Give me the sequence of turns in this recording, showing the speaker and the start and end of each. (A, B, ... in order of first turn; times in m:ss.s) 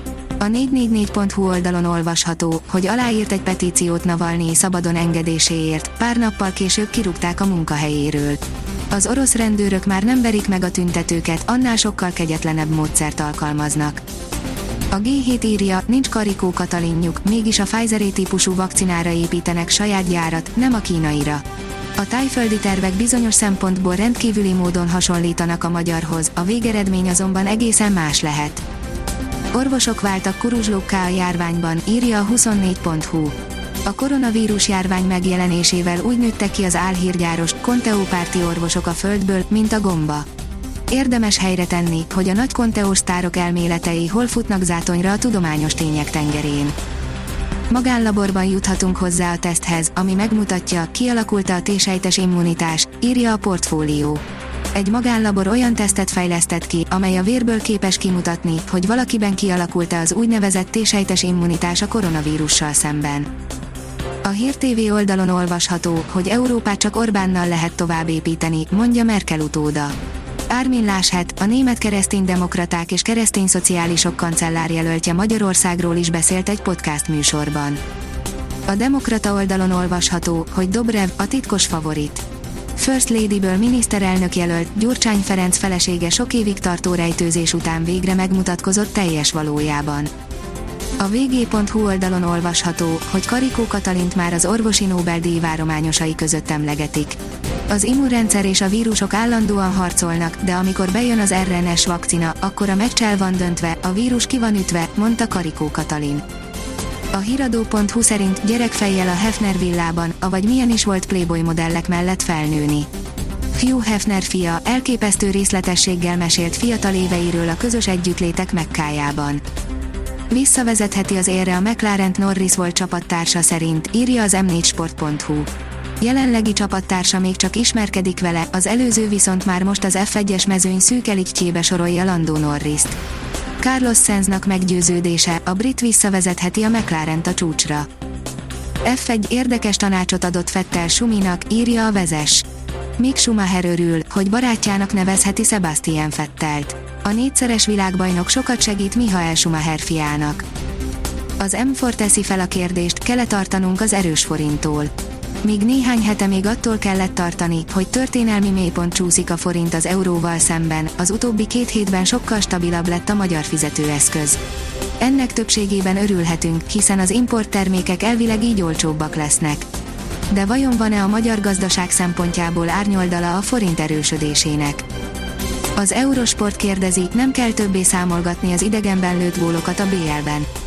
0:00.4-0:14.0 A
0:14.9-0:21.4 A
0:22.0-0:28.6 A
0:29.5-0:40.3 A
0:40.9-0:46.8 A
0:47.7-1:03.3 A
1:04.2-1:10.0 A
1:10.5-1:17.8 A
1:18.7-1:22.2 A
1:22.8-1:30.1 A
1:31.0-1:46.2 A
1:47.1-1:52.9 A
1:53.5-1:59.4 A
2:00.3-2:13.0 A
2:13.6-2:17.9 A
2:18.8-2:22.5 A
2:23.0-2:30.4 A
2:31.4-2:34.9 A
2:35.4-2:44.4 A
2:45.0-2:49.7 A
2:50.3-2:54.8 A
2:55.8-3:00.5 A